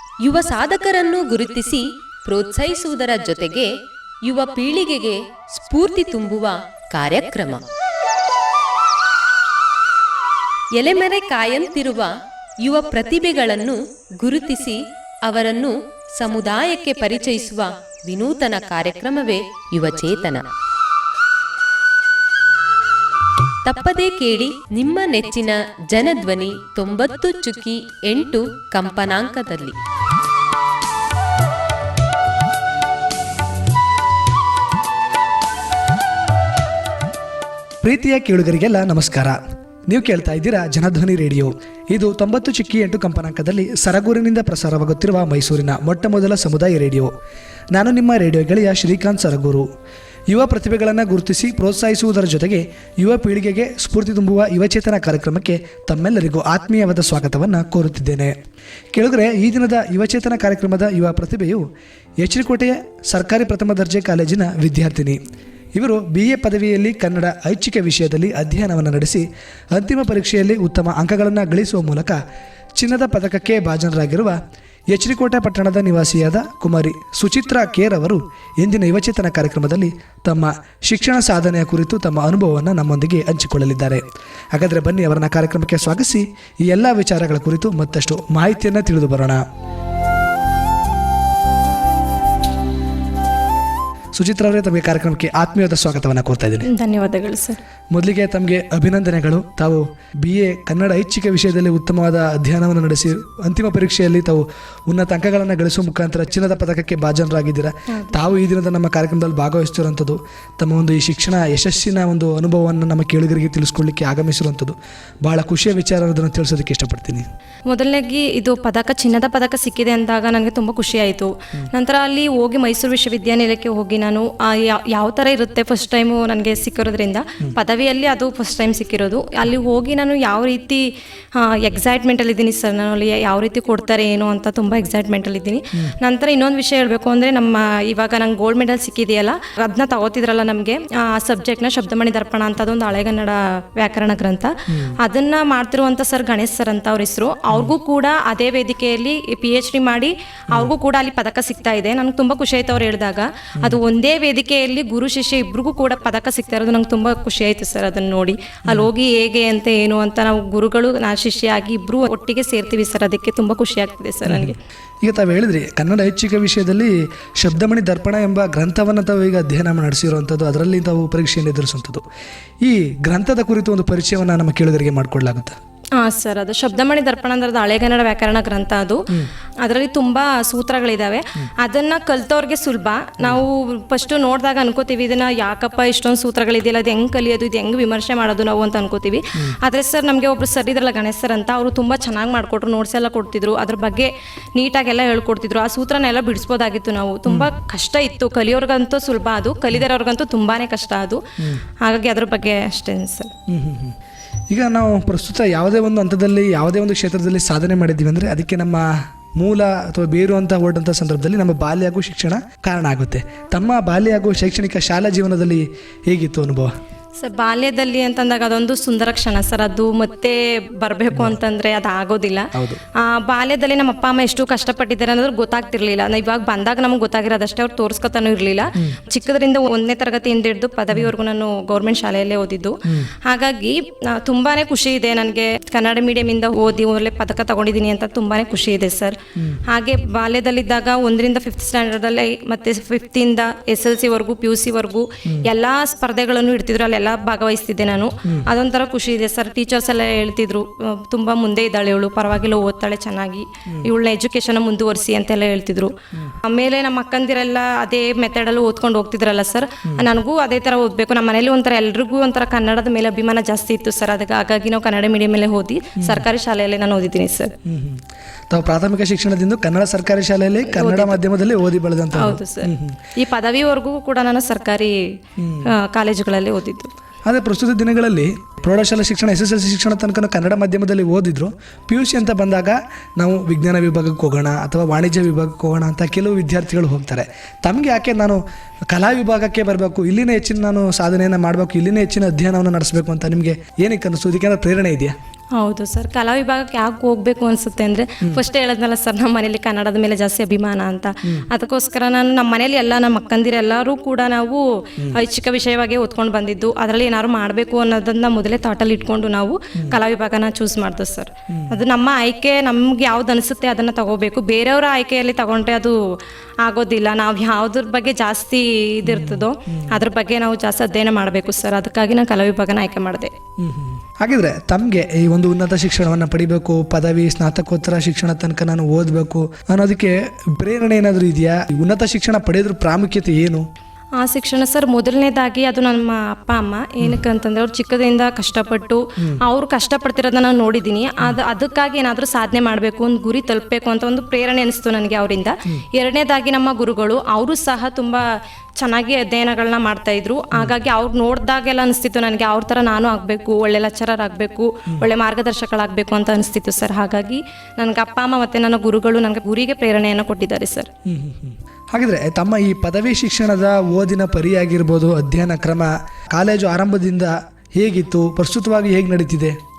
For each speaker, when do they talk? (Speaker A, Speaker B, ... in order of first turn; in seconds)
Speaker A: 0.2-3.7, 4.2-7.6, 10.8-20.5, 23.6-29.8
Speaker B: 37.8-47.1, 47.7-49.7, 50.3-58.4, 58.9-61.7, 62.2-65.2, 65.7-72.2, 72.8-89.4, 94.1-96.7, 97.9-117.3, 144.7-144.9, 164.2-172.0, 172.6-175.6, 203.5-203.9, 204.5-216.7, 221.1-221.4, 222.5-222.8, 232.8-233.1, 239.3-239.6, 266.0-266.2, 267.6-273.0, 275.4-275.7, 277.2-295.1, 311.5-311.8, 319.0-320.0, 323.6-333.6, 361.0-369.6
Speaker C: 96.6-97.6, 107.9-108.2, 117.7-164.6, 175.9-179.1, 179.6-203.3, 217.2-267.5, 270.6-271.2, 272.1-274.9, 275.6-276.9, 295.6-316.0, 316.6-323.3, 334.2-348.2, 348.8-360.9